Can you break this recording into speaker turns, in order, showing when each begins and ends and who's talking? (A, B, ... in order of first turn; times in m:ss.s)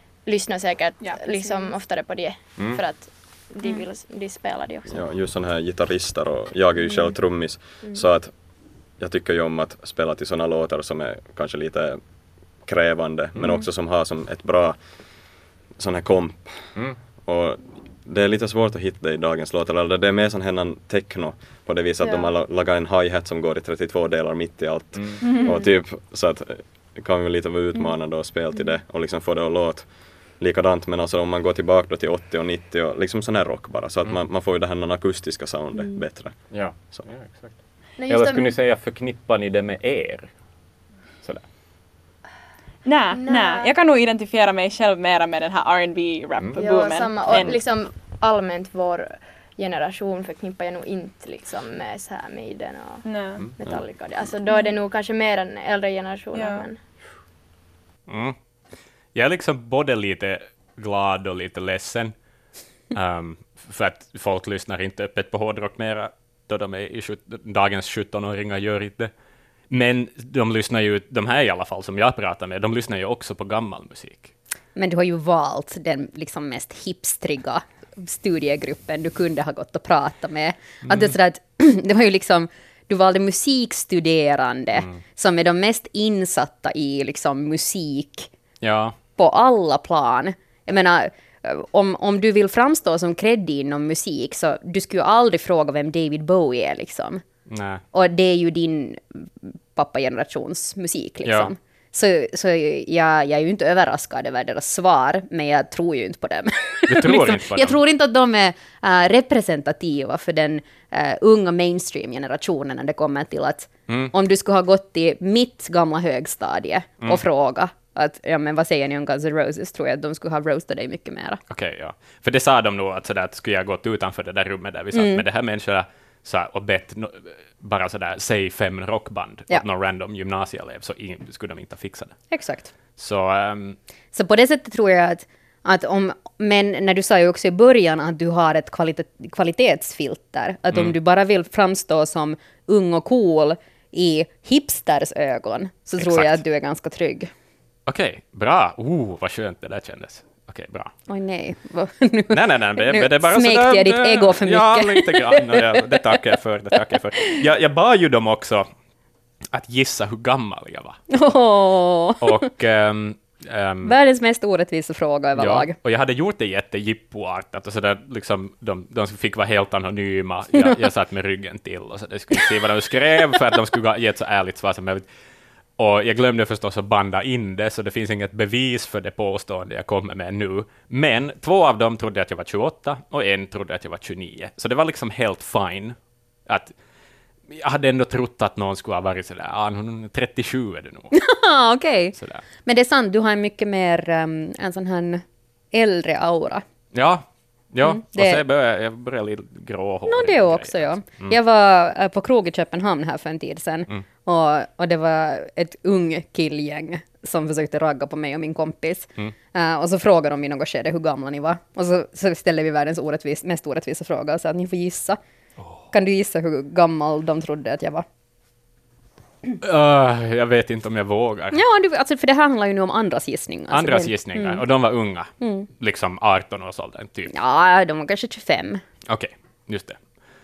0:00.2-0:05.1 A
0:01.0-0:01.8 B
0:02.6-0:02.8 C
0:04.9-0:37.1 C
0:06.8-0:07.2 A
0:07.8-0:08.0 A
0:22.0-0:22.3 A
0:24.9-0:25.2 D
0:25.2-0:25.7 A
0:25.2-0:25.6 B
0:28.5-0:28.8 A
0:35.8-0:36.0 A
0:36.5-0:40.3 D
0:38.0-0:38.5 A
0:42.8-0:47.6 B
0:43.1-0:43.7 A
0:46.6-0:56.8 A
0:53.0-0:53.5 B
0:56.3-0:56.7 B
0:58.1-0:58.4 D
0:59.1-1:02.1 D
1:02.9-1:09.1 D
1:09.7-1:14.3 D
1:14.8-1:28.3 E
1:20.8-1:21.1 D
1:24.8-1:25.0 D
1:28.6-1:29.0 D
1:29.2-1:37.2 E
1:37.5-1:37.8 D
1:37.9-2:01.4 E
1:41.2-1:41.5 D
1:46.9-1:47.8 D
1:53.9-1:54.1 D
2:01.5-2:12.2 D
2:04.9-2:05.2 E
2:12.3-2:12.7 E
2:13.0-2:13.8 D
2:14.1-2:27.3 E
2:20.7-2:21.0 D
2:26.0-2:26.4 D
2:27.9-2:30.9 D
2:31.1-2:36.2 E
2:32.3-2:38.7 D
2:36.8-2:37.4 E
2:39.5-2:41.0 D
2:41.1-2:42.5 E
2:42.2-2:44.0 D
2:43.8-2:45.8 E
2:45.4-2:55.1 D
2:55.8-3:06.8 D
3:07.5-3:11.2 D
3:11.1-3:16.6 E
3:12.2-3:12.4 D
3:16.9-3:21.4 D
3:17.8-3:18.4 E
3:20.1-3:35.2 E
3:35.6-3:35.9 D
3:35.9-3:38.0 E
3:39.6-3:41.6 D
3:41.5-3:44.6 E
3:43.7-3:47.3 D
3:45.4-3:45.7 E
3:47.3-3:48.8 E
3:49.1-3:50.0 D